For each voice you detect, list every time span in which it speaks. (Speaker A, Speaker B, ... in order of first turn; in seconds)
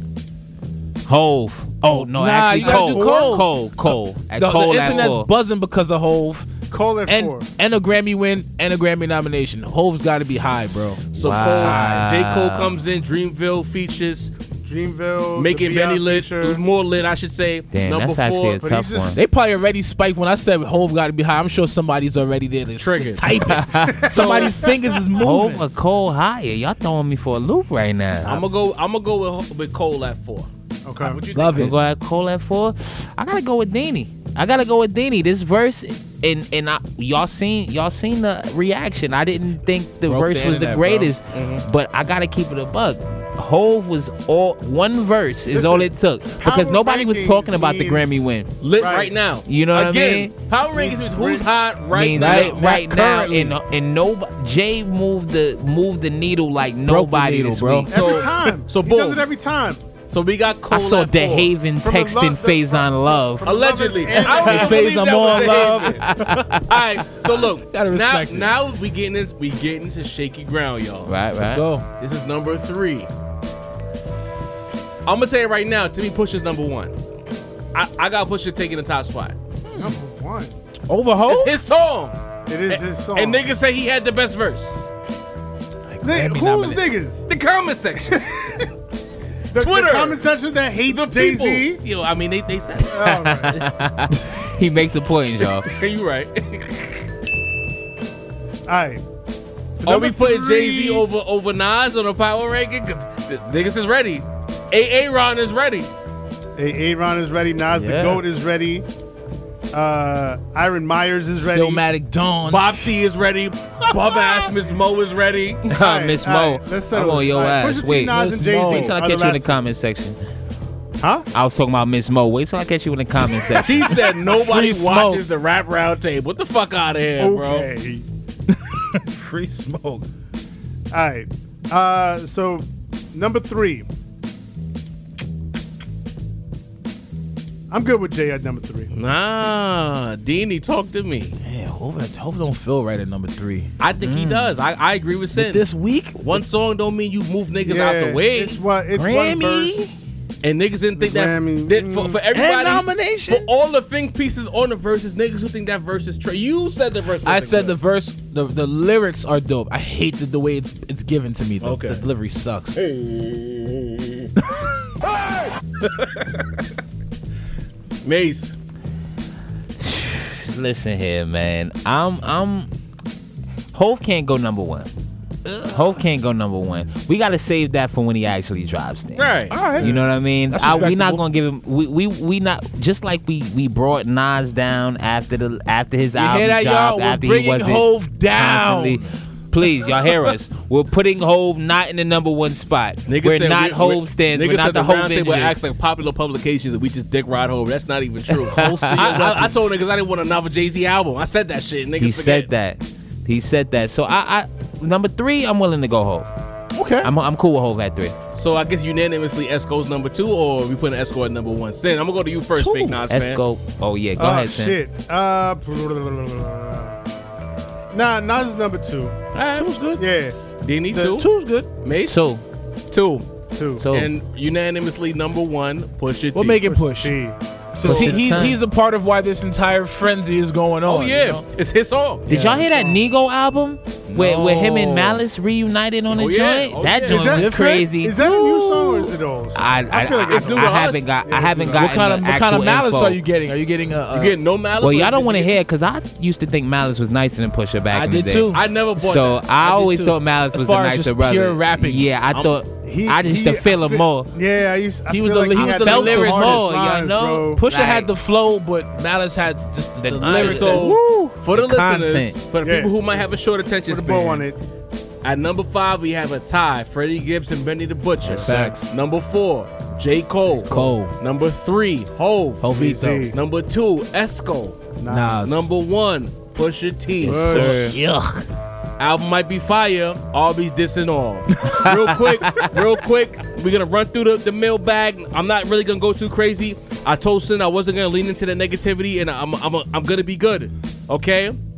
Speaker A: 1.1-5.3, 11.2-12.8, 17.7-19.2, 23.5-24.4, 25.2-28.4, 31.5-48.5, 49.5-50.3, 51.9-57.9, 60.7-63.5, 66.0-66.7, 71.0-71.6, 93.2-95.7, 115.7-120.2, 121.3-124.0, 144.0-144.5, 169.8-172.7, 173.7-174.9, 175.7-195.6, 198.5-199.1, 202.0-206.3, 207.0-208.1, 213.1-214.8, 222.0-222.4, 223.8-224.1, 227.8-228.6, 232.3-243.2, 244.8-254.3, 255.6-258.1, 260.0-262.4, 277.5-277.9
Speaker B: 1.9-3.7, 4.3-6.5, 7.0-11.1, 19.1-25.6, 31.3-31.8, 40.0-41.1, 52.1-53.5, 56.9-58.2, 64.3-66.1, 67.7-68.5, 71.4-71.8, 79.7-80.0, 80.9-81.6, 85.9-86.8, 107.7-108.2, 111.3-112.9, 118.1-119.0, 124.2-125.2, 128.5-130.1, 141.4-143.7, 145.3-146.4, 148.9-149.9, 152.3-153.5, 157.2-162.8, 175.4-176.0, 179.5-181.2, 186.1-189.2, 198.4-199.8, 206.7-207.1, 212.6-213.0, 219.5-220.0, 221.1-221.7, 226.3-227.2, 227.8-231.4, 234.1-235.2, 237.1-237.9, 241.7-244.4, 247.9-248.6, 249.6-252.1, 255.1-256.6, 257.5-260.9, 268.2-268.9, 270.6-271.1, 272.6-273.3, 275.1-275.7, 277.2-278.5, 281.6-282.0
Speaker C: 2.6-3.4, 6.7-7.5, 14.6-16.6, 18.6-19.2, 24.1-24.7, 30.8-31.2, 45.5-49.1, 50.7-51.5, 57.9-59.9, 61.8-66.0, 79.8-80.6, 82.5-83.5, 86.0-87.3, 88.0-88.7, 89.5-91.8, 92.8-93.6, 98.7-99.0, 99.8-101.0, 106.5-108.8, 109.7-111.8, 115.7-119.6, 121.0-121.3, 127.2-128.0, 130.9-133.9, 137.7-138.9, 147.6-149.8, 151.0-152.2, 214.2-217.0, 217.9-219.2, 220.0-220.4, 220.9-221.2, 223.5-223.8, 226.6-228.5, 232.3-233.0, 237.1-241.9, 252.8-257.6, 262.6-263.3, 263.9-264.6, 272.7-273.4, 275.0-275.4, 277.2-278.0
Speaker D: 11.1-14.3, 15.3-18.6, 22.8-23.2, 24.1-24.5, 28.2-31.6, 41.3-41.6, 48.6-52.6, 57.9-59.2, 60.1-61.5, 63.4-71.1, 72.0-73.1, 75.0-76.9, 77.7-79.3, 81.3-82.2, 82.7-84.9, 87.3-88.2, 89.5-90.3, 90.9-93.6, 95.4-97.0, 99.8-105.9, 112.5-115.7, 123.5-127.7, 138.9-141.3, 143.8-148.6, 150.4-157.8, 161.6-162.0, 162.8-164.3, 168.0-168.5, 179.2-179.7, 193.1-202.5, 208.3-213.4, 219.3-219.7, 220.6-221.3, 221.8-222.2, 222.9-223.2, 223.9-226.6, 230.8-232.2, 236.1-237.4, 240.3-241.1, 244.1-245.5, 248.5-249.4, 260.2-264.5, 265.2-272.8, 273.3-274.9, 275.4-277.9, 279.0-291.6